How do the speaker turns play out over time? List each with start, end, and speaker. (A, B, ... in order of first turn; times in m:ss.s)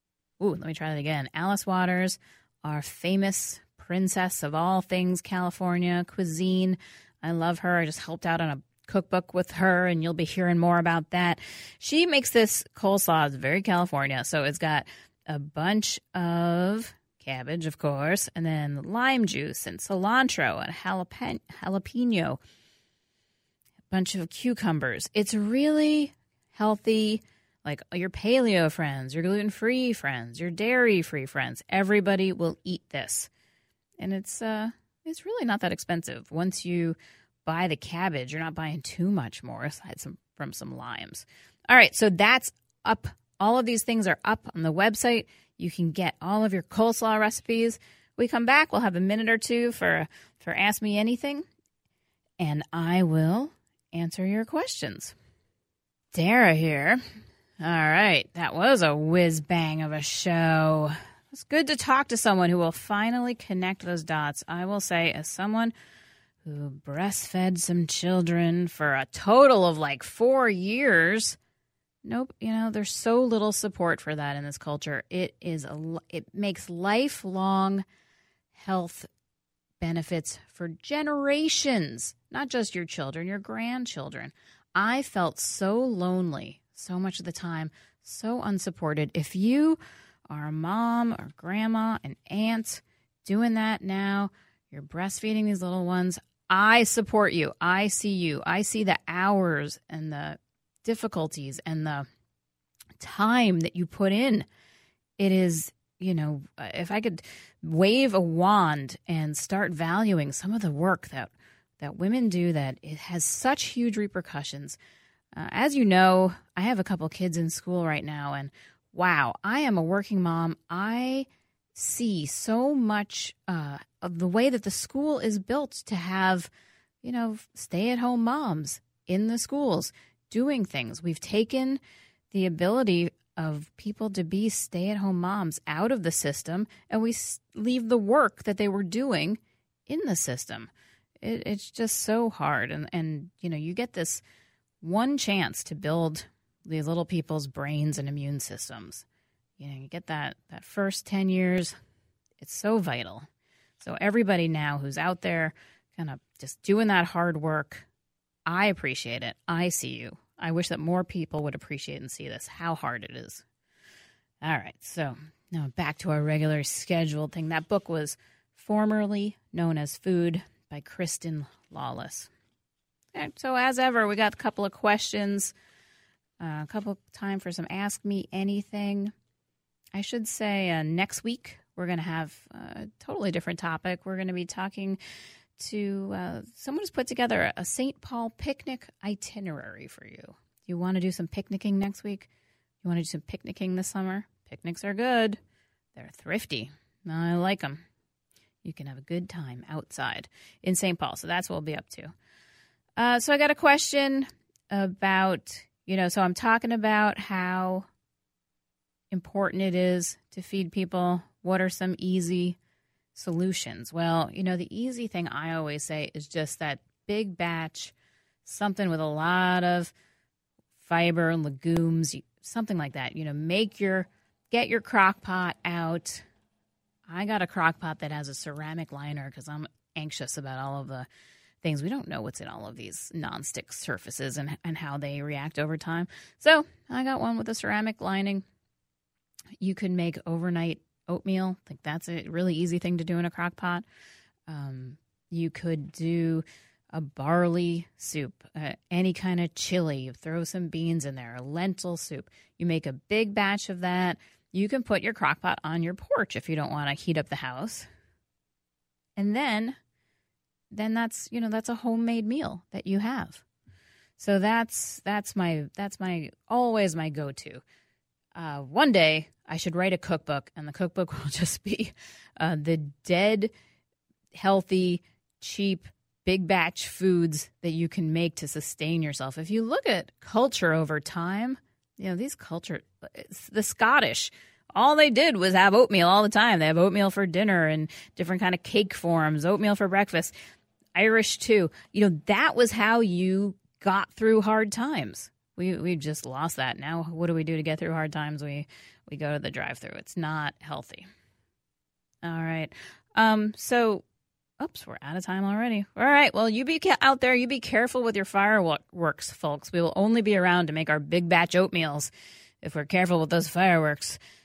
0:00.4-0:22.4 A
0:23.9-0:33.3 A
0:34.0-0:51.4 A
0:52.4-0:55.1 A
0:56.1-0:57.0 A
0:57.6-1:05.7 A
1:06.4-1:11.4 A
1:12.0-1:17.8 A
1:18.5-1:19.1 A
1:19.8-1:42.1 A
1:43.0-1:44.4 A
1:45.2-1:54.8 A
1:55.3-2:06.5 A
2:07.0-2:20.7 A
2:21.2-2:24.2 A
2:24.8-2:29.0 A
2:29.6-2:31.7 A
2:32.4-2:33.3 A
2:33.8-2:37.8 A
2:38.5-2:43.4 A
2:44.4-2:52.3 A
2:53.1-2:55.5 A
2:56.4-2:59.1 A
2:59.9-3:05.0 A
3:05.6-3:12.3 A
3:12.8-3:15.4 A
3:16.0-3:17.8 A
3:18.6-3:22.1 A
3:23.0-3:27.8 A
3:29.1-3:32.6 A
3:33.1-3:37.9 A
3:38.4-3:39.9 A
3:40.8-3:46.2 A
3:47.1-3:51.1 A
3:51.6-3:58.4 A
3:59.6-4:03.8 A
4:04.5-4:17.9 A
4:19.2-4:19.8 A
4:20.7-4:23.4 A
4:24.2-4:27.6 A
4:28.3-4:33.5 A
4:34.3-4:50.3 A
4:50.9-5:01.0 A
5:02.2-5:04.0 A
5:04.6-5:14.2 A